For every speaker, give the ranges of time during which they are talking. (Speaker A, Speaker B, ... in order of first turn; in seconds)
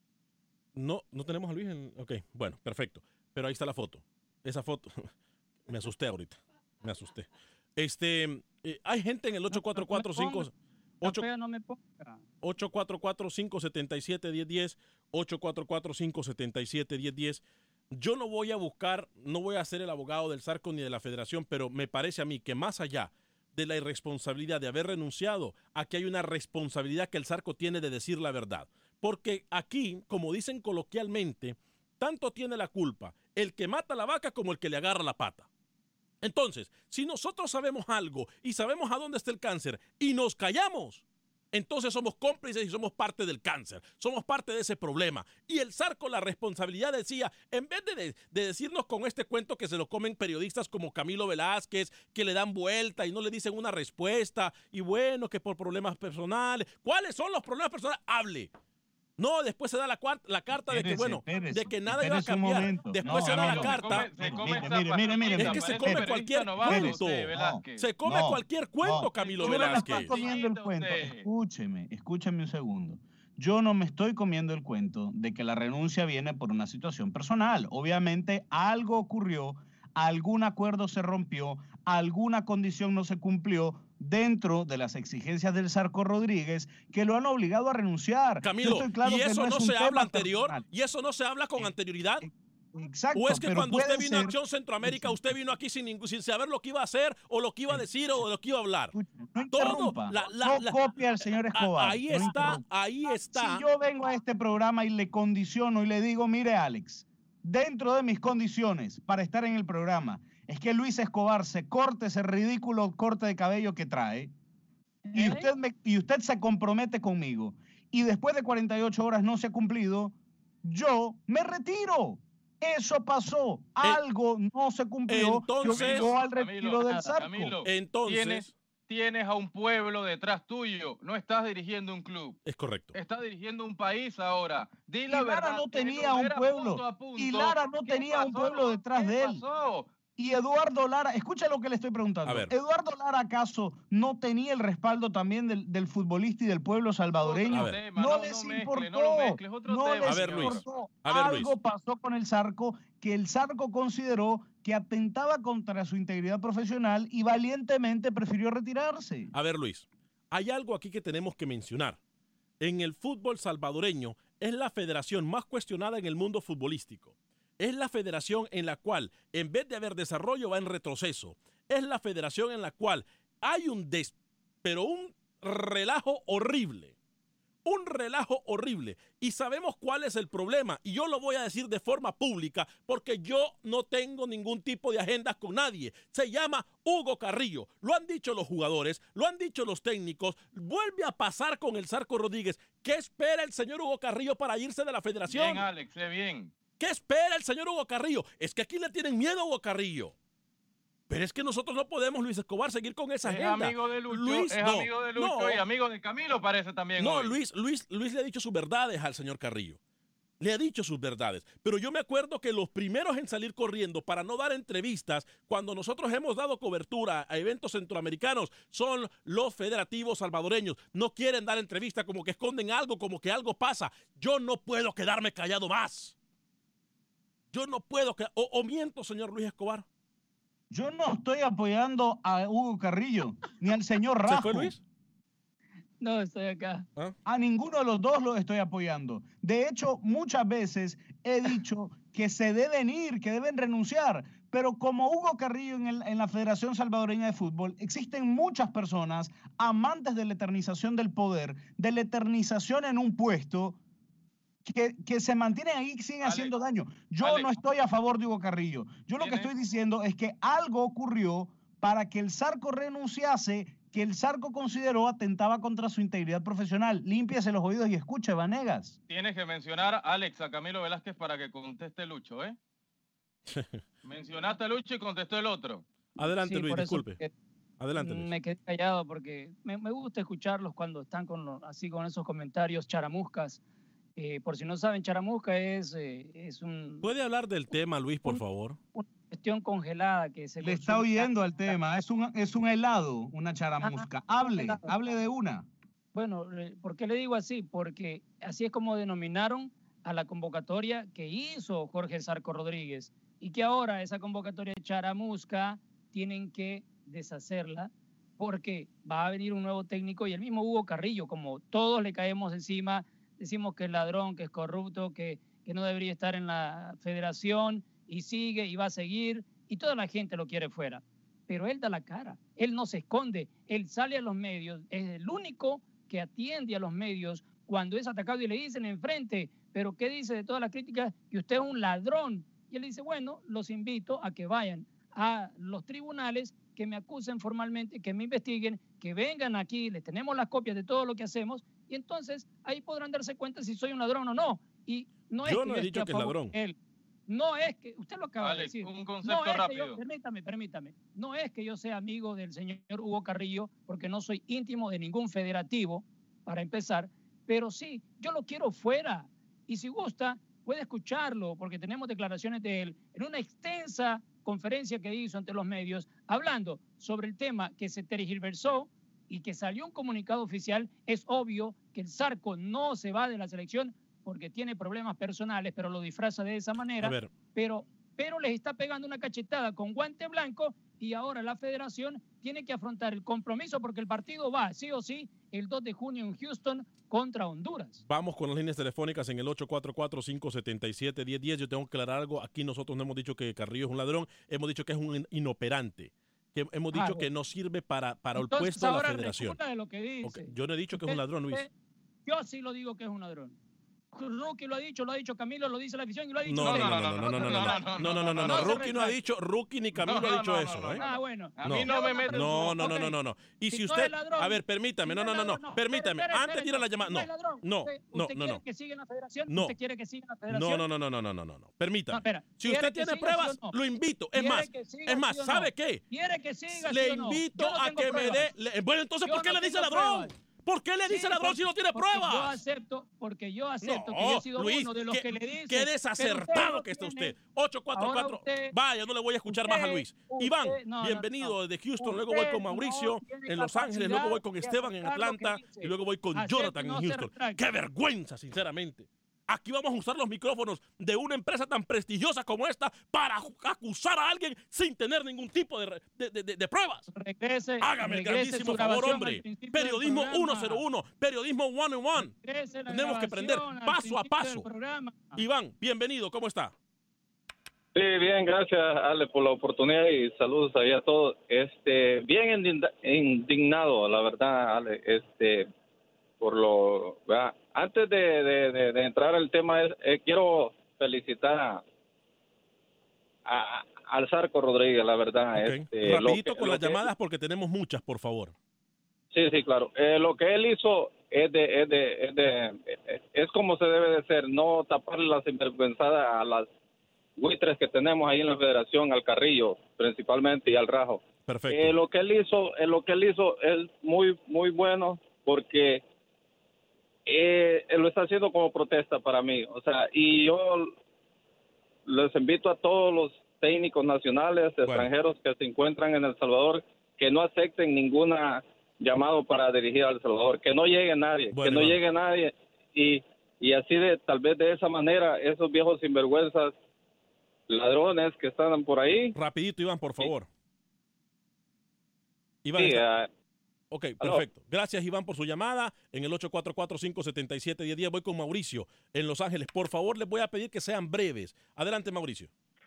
Speaker A: 0.8-5.1, 5.7-11.2, 12.4-35.5, 36.2-58.5, 59.2-64.3, 65.4-70.2, 88.4-92.3, 93.2-98.9, 99.5-100.8, 101.5-103.7, 125.1-126.1, 127.7-128.5, 132.5-132.9, 142.2-142.5, 147.5-147.8, 150.1-151.5, 159.3-162.0, 162.6-176.9, 177.7-195.7, 196.8-200.2, 201.1-205.6, 207.0-209.8, 210.4-226.2, 227.5-229.8, 234.2-234.8, 273.5-273.8, 276.2-277.2, 277.8-278.3, 287.0-288.8, 345.4-346.6, 377.0-377.3, 388.1-399.6, 400.2-401.7, 406.5-411.0, 411.6-418.6, 419.5-419.8, 420.5-426.0, 426.7-432.6, 433.8-457.1, 457.8-462.3, 462.9-464.7, 465.4-466.7, 485.6-488.5, 501.5-502.0, 521.5-522.0, 529.3-530.5, 532.6-533.0, 533.9-542.5
Speaker B: 9.5-10.5, 11.0-12.2, 115.1-115.5, 126.8-127.1, 236.0-236.8, 276.4-277.3, 278.0-283.6, 284.2-287.1, 288.9-291.8, 293.8-294.9, 296.1-346.8, 347.3-388.0, 396.9-397.3, 398.4-401.7, 402.3-403.6, 404.1-409.2, 411.0-413.2, 413.7-420.9, 422.1-423.8, 424.4-428.5, 429.3-430.3, 431.1-437.3, 437.9-438.7, 439.5-447.6, 457.1-460.8, 462.2-465.4
Speaker C: 60.7-66.1, 66.6-90.6, 92.2-95.3, 98.9-102.6, 103.3-114.3, 115.1-127.6, 135.1-139.4, 140.2-159.3, 230.7-234.8, 237.3-253.8, 254.7-269.0, 290.6-295.7
Speaker D: 63.1-67.9, 69.2-71.3, 125.6-132.4, 132.9-139.9, 147.2-150.6, 195.3-196.5, 203.2-207.3, 256.2-256.6, 257.2-257.5, 259.2-259.5, 269.1-272.6, 274.0-275.9, 348.4-350.0, 406.6-408.9, 410.0-412.7
Speaker E: 467.9-475.7, 476.4-481.8, 483.5-487.1, 489.3-496.7, 497.4-506.0, 507.3-510.9, 512.1-526.7, 527.7-529.3, 532.8-533.3